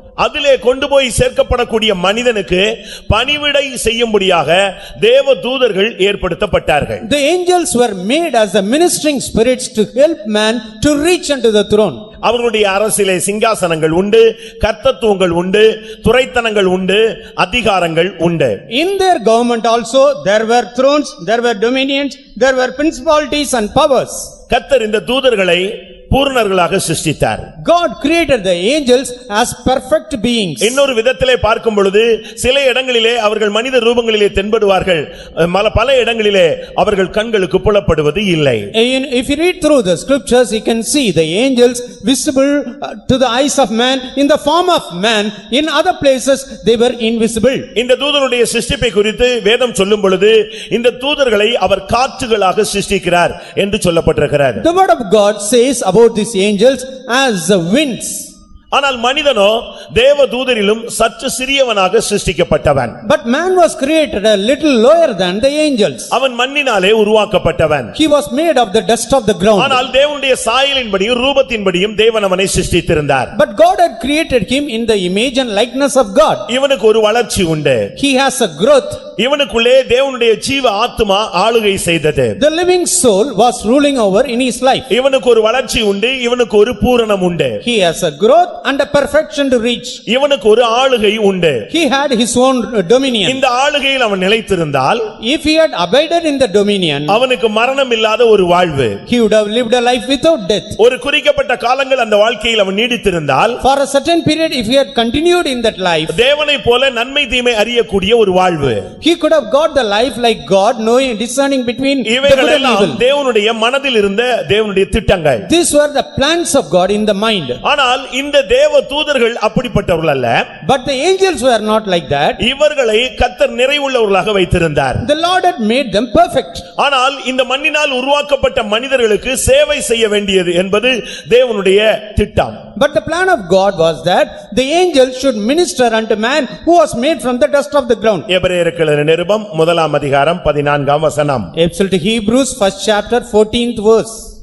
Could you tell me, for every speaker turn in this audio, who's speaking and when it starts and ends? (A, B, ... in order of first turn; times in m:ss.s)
0:00.2-0:07.0 A
0:07.0-0:12.0 B
0:12.2-0:18.6 A
0:18.7-0:24.3 B
0:24.5-0:27.5 A
0:27.6-0:30.8 B
0:30.6-0:38.6 A
0:38.7-0:47.7 B
0:47.7-0:54.6 A
0:54.6-0:58.3 B
0:58.7-1:03.0 A
1:03.0-1:06.1 B
1:06.1-1:07.9 A
1:07.9-1:09.8 B
1:09.6-1:13.3 A
1:13.3-1:16.4 B
1:16.5-1:17.9 A
1:18.0-1:19.0 B
1:19.2-1:22.4 A
1:22.4-1:24.9 B
1:24.9-1:27.6 A
1:27.6-1:30.0 B
1:30.1-1:31.6 A
1:31.7-1:33.4 B
1:33.2-1:35.0 A
1:35.2-1:37.2 B
1:37.1-1:39.0 A
1:39.1-1:40.8 B
1:40.8-1:43.6 A
1:43.6-1:46.1 B
1:46.1-1:48.8 A
1:49.0-1:53.0 B
1:52.1-1:55.4 A
1:55.4-1:57.6 B
1:57.6-2:00.4 A
2:00.6-2:02.4 B
2:02.4-2:05.0 A
2:05.0-2:06.6 B
2:06.8-2:12.6 A
2:12.8-2:18.3 B
2:18.3-2:21.5 A
2:21.6-2:24.3 B